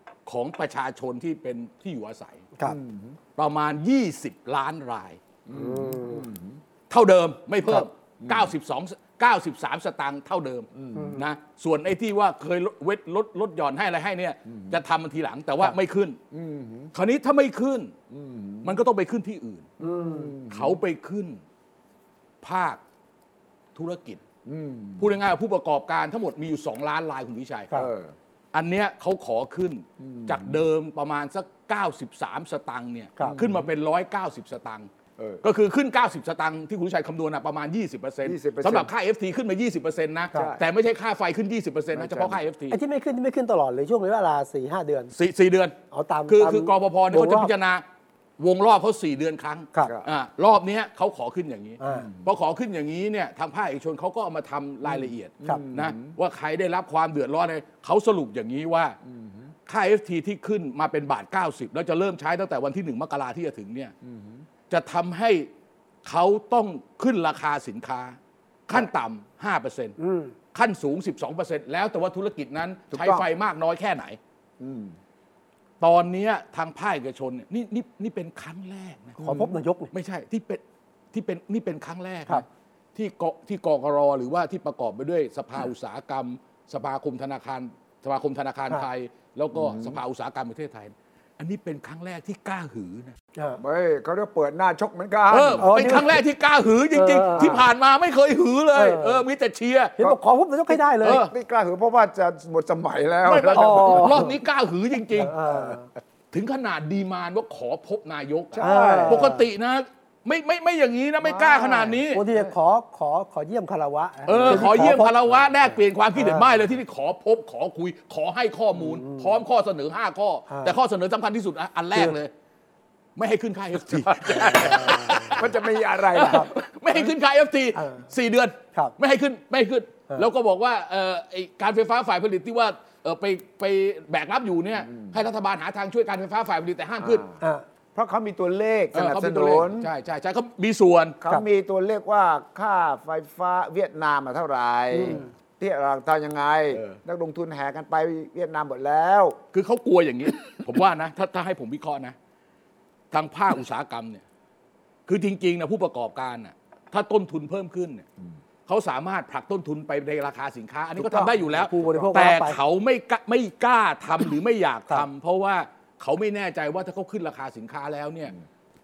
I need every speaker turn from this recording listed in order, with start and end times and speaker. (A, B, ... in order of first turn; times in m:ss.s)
0:00.3-0:02.4 A
0:02.6-0:03.2 B
0:03.4-0:05.2 A
0:05.5-0:06.6 B
0:05.5-0:06.2 C
0:06.9-0:16.2 A
0:08.2-0:08.5 B
0:10.8-0:11.2 B
0:11.0-0:11.2 C
0:14.5-0:14.8 B
0:16.3-0:16.9 B
0:16.9-0:17.9 A
0:18.1-0:18.7 B
0:18.6-0:19.7 A
0:19.8-0:20.3 C
0:19.8-0:20.8 B
0:20.5-0:21.4 A
0:22.4-0:22.8 A
0:23.7-0:24.2 A
0:24.4-0:25.2 B
0:25.0-0:27.7 A
0:27.7-0:28.1 B
0:28.5-0:34.9 A
0:30.0-0:30.6 B
0:33.2-0:33.6 B
0:35.4-0:42.8 A
0:38.2-0:38.9 B
0:40.3-0:40.6 B
0:42.0-0:42.4 B
0:42.7-0:45.1 C
0:45.1-0:45.8 A
0:45.9-0:47.5 C
0:46.3-0:47.8 A
0:48.4-0:59.0 A
0:51.8-0:52.1 C
0:51.9-0:52.3 B
0:54.9-0:56.1 B
0:59.0-0:59.5 B
0:59.7-1:03.9 A
1:04.0-1:04.4 B
1:04.7-1:05.5 A
1:06.0-1:08.2 A
1:08.7-1:10.0 A
1:10.0-1:10.3 C
1:10.5-1:14.2 A
1:12.9-1:13.3 B
1:14.6-1:15.0 B
1:15.8-1:19.2 A
1:19.2-1:19.5 B
1:19.2-1:19.9 C
1:19.9-1:20.6 A
1:21.1-1:33.1 A
1:29.6-1:30.0 B
1:33.6-1:36.0 B
1:35.3-1:40.0 A
1:35.6-1:36.2 C
1:37.0-1:37.6 C
1:37.4-1:37.6 B
1:38.7-1:39.2 C
1:40.0-1:41.2 C
1:40.7-1:44.1 B
1:41.0-1:41.3 A
1:43.2-1:45.4 A
1:43.5-1:44.3 C
1:45.2-1:45.9 C
1:45.5-1:45.8 B
1:46.3-1:52.2 A
1:48.5-1:49.3 B
1:48.6-1:49.4 C
1:51.2-1:52.4 B
1:52.1-1:56.4 C
1:54.3-2:02.3 A
1:54.3-1:55.0 B
1:58.8-1:59.4 C
2:00.5-2:00.7 C
2:03.2-2:17.2 A
2:04.1-2:06.5 B
2:04.3-2:05.4 C
2:06.2-2:06.5 C
2:07.7-2:08.0 C
2:17.0-2:17.3 B
2:18.0-2:19.9 B
2:18.9-2:21.2 A
2:21.2-2:29.4 B
2:24.9-2:25.3 C
2:26.7-2:27.0 A
2:29.5-2:32.1 A
2:33.1-2:34.2 A
2:35.1-2:38.0 A
2:38.7-2:48.3 A
2:41.0-2:41.4 B
2:41.5-2:42.6 C